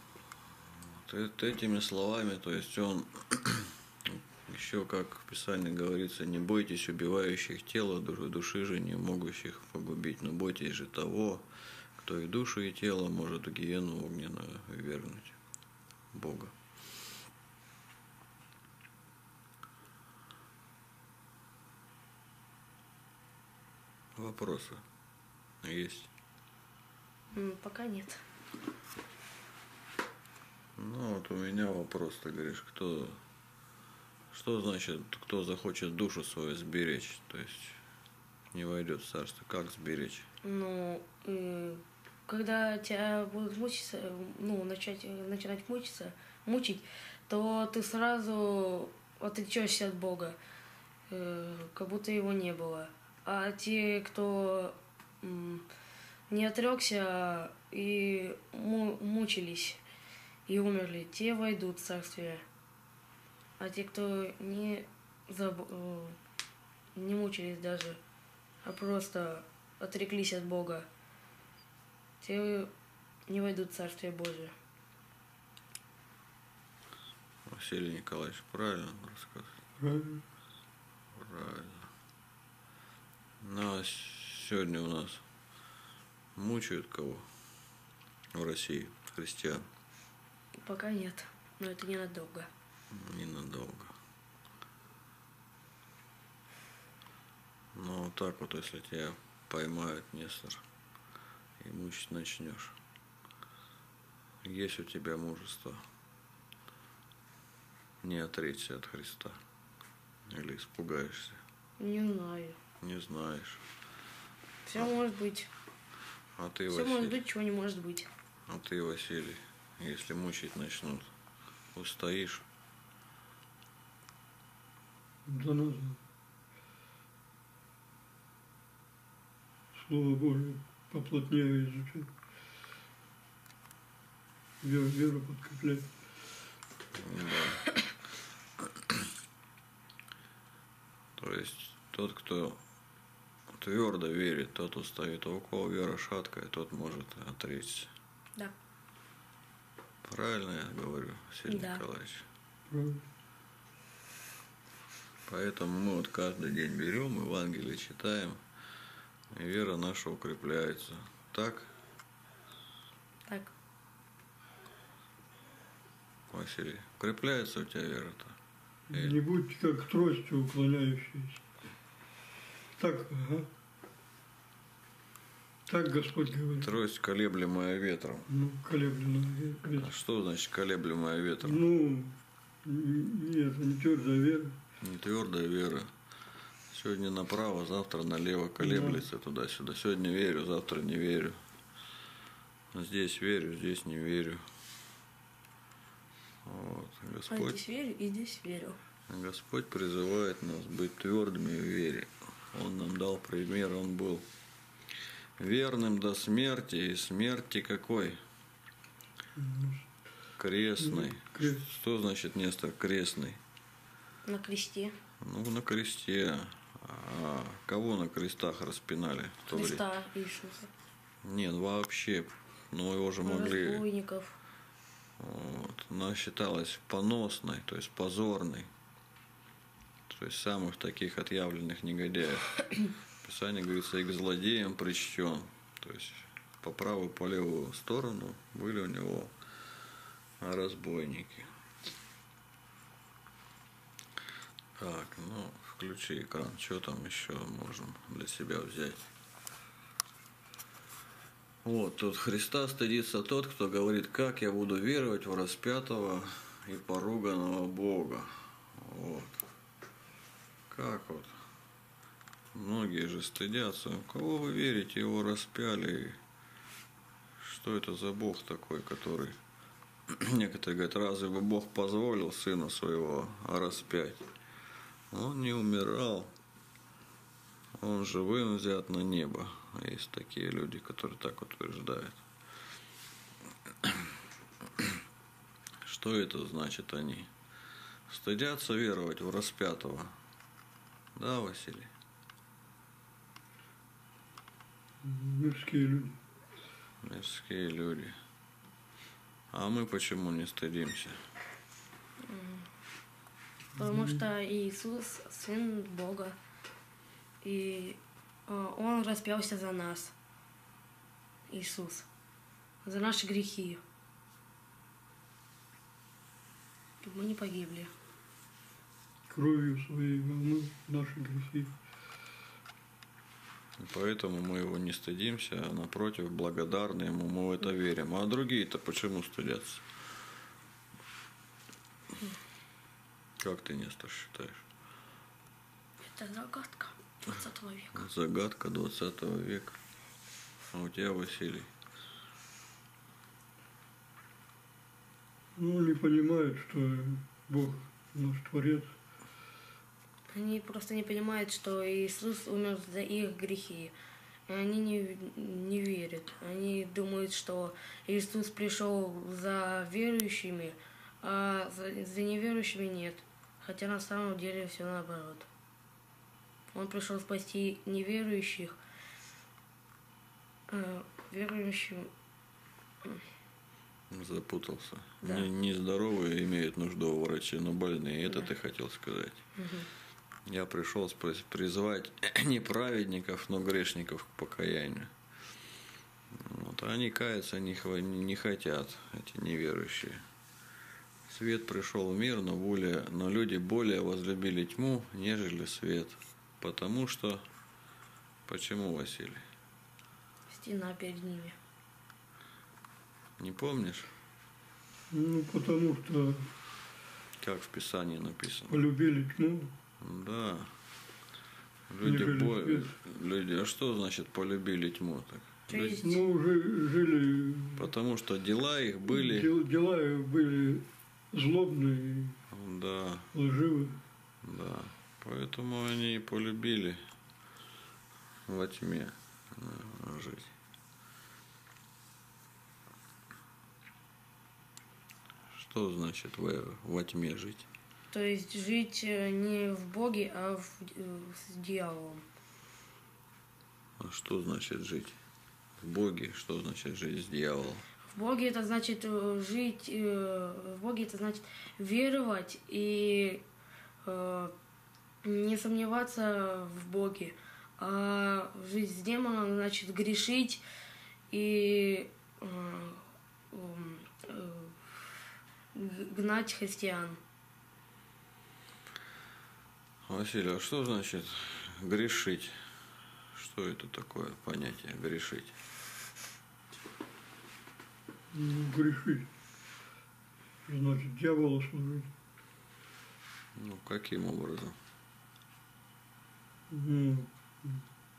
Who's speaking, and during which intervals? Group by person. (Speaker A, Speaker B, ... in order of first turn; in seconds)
Speaker A: 1.0-11.4, 12.0-15.3, 16.1-16.5, 24.1-24.8, 25.6-26.1, 30.8-33.2, 34.3-37.8, 38.5-40.3, 77.5-79.5, 81.1-81.9, 83.4-85.2, 86.3-87.2, 88.3-89.7, 92.9-93.9, 97.7-100.6, 101.6-102.7, 104.4-105.8, 108.0-109.4, 110.3-111.4, 112.8-113.6, 116.3-117.2, 118.5-121.1, 121.7-122.4, 136.9-137.8, 141.2-142.6, 143.5-147.9, 150.0-152.2, 155.3-158.4, 159.3-161.7, 166.3-168.3, 176.6-178.3, 179.7-181.6, 184.8-185.9, 186.7-191.4, 192.7-194.4, 196.4-197.6, 199.1-204.2, 205.4-208.2, 210.4-213.4, 215.2-219.8, 221.2-223.8, 225.2-228.7, 230.1-239.3, 240.4-241.5, 244.8-249.1, 251.6-259.4, 260.7-261.4, 262.5-266.2, 267.4-269.4, 270.1-274.3, 275.1-276.3, 277.8-282.2, 285.8-287.3, 288.1-290.1, 291.1-291.9, 297.0-298.1, 299.5-301.2, 323.8-329.9, 333.4-334.6, 337.9-339.8, 340.7-341.7, 374.1-379.4, 380.5-385.1, 386.3-390.2, 391.3-397.4, 398.4-399.4, 403.4-404.1, 407.4-408.8, 410.0-410.7, 411.9-416.0, 417.8-419.5, 422.5-423.3, 424.4-427.0, 428.5-430.5, 435.5-437.7, 444.0-445.2, 445.8-447.8, 470.0-472.6, 473.3-475.6, 483.5-484.8
Speaker B: 27.3-28.2, 40.4-50.4, 51.1-55.6, 56.3-59.8, 60.5-62.4, 63.6-66.2, 67.0-68.0, 68.6-70.9, 72.2-72.7, 73.3-74.5, 90.6-92.5, 111.8-112.6, 114.7-115.5, 116.7-118.1, 151.5-151.8, 163.3-163.5, 197.3-198.8, 214.2-214.9, 219.5-220.7, 223.2-224.4, 302.2-302.7, 303.8-306.4, 307.4-310.1, 311.5-312.1, 312.8-313.8, 317.0-317.9, 336.1-338.0, 350.3-353.9, 354.5-365.5, 366.7-368.8, 370.7-372.1, 375.2-375.5, 379.6-379.9, 400.5-401.6, 415.7-416.2, 438.1-442.2, 448.1-453.4, 454.0-454.5, 455.2-460.6, 461.3-464.8, 465.7-467.2
Speaker C: 79.8-80.2, 125.2-126.0, 129.7-132.1, 134.6-135.9, 152.7-153.0, 168.9-171.4, 172.8-173.5, 175.7-176.7, 178.3-179.9, 181.4-184.6, 188.6-189.0, 209.3-209.9, 210.8-211.6, 295.0-296.2, 303.8-304.2, 319.3-321.7, 345.6-348.9, 405.1-406.5, 408.7-409.7, 412.0-412.9, 415.9-417.9, 419.1-422.4, 423.3-424.0, 478.3-479.3, 480.6-482.1, 486.7-487.8